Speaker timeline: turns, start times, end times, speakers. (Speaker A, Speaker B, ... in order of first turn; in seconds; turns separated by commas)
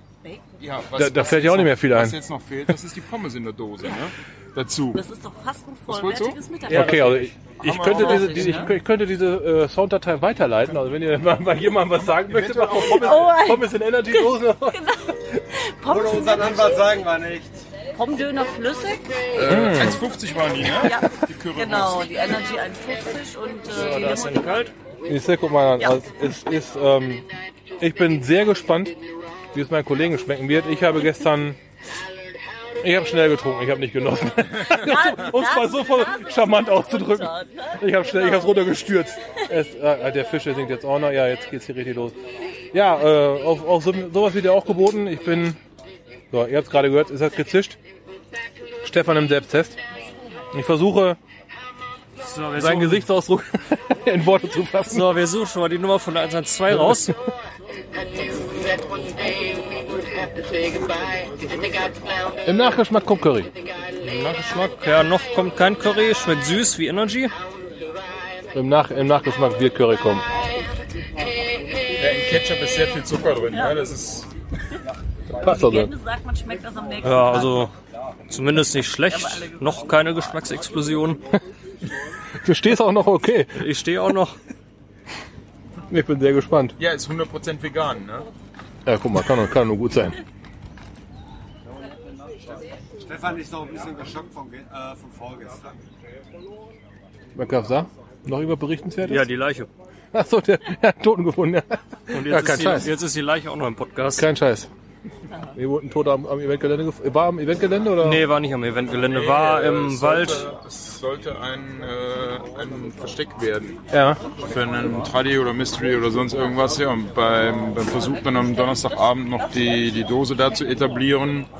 Speaker A: 0.6-5.0, Speaker B: 1.0-2.2, Speaker C: 4.9-7.1, Speaker A: 5.9-6.4, Speaker B: 6.7-14.9, Speaker D: 6.7-8.2, Speaker A: 7.6-8.7, Speaker C: 7.8-8.7, Speaker A: 12.1-13.3, Speaker C: 12.8-17.0, Speaker E: 15.8-17.6, Speaker C: 17.9-19.1, Speaker A: 19.4-22.0, Speaker B: 19.5-20.0, Speaker C: 20.7-24.7, Speaker D: 23.7-24.7, Speaker B: 25.1-27.3, Speaker B: 27.8-29.0, Speaker B: 29.5-31.6, Speaker B: 32.8-42.2, Speaker C: 34.8-38.8, Speaker B: 42.7-45.6, Speaker B: 46.3-47.8, Speaker B: 48.8-49.8, Speaker B: 50.5-51.2, Speaker D: 52.2-53.0, Speaker B: 52.6-55.2, Speaker D: 54.9-57.2, Speaker B: 56.7-57.1, Speaker B: 62.5-63.5, Speaker D: 64.0-67.3, Speaker B: 68.5-70.2, Speaker A: 72.0-74.3, Speaker C: 73.5-73.9, Speaker C: 75.4-77.7, Speaker B: 75.4-75.9, Speaker D: 77.0-77.7, Speaker D: 78.3-81.2, Speaker C: 79.1-79.8, Speaker B: 82.4-83.6, Speaker D: 83.5-84.4, Speaker B: 85.9-86.8, Speaker A: 86.8-88.3, Speaker B: 88.9-90.2, Speaker E: 92.3-95.8, Speaker B: 97.3-99.3, Speaker D: 99.0-99.7, Speaker B: 100.1-102.9, Speaker D: 102.1-104.3, Speaker B: 104.2-104.7, Speaker B: 105.5-108.2, Speaker D: 108.0-110.4, Speaker A: 109.0-113.8, Speaker B: 113.9-114.2, Speaker A: 114.4-121.5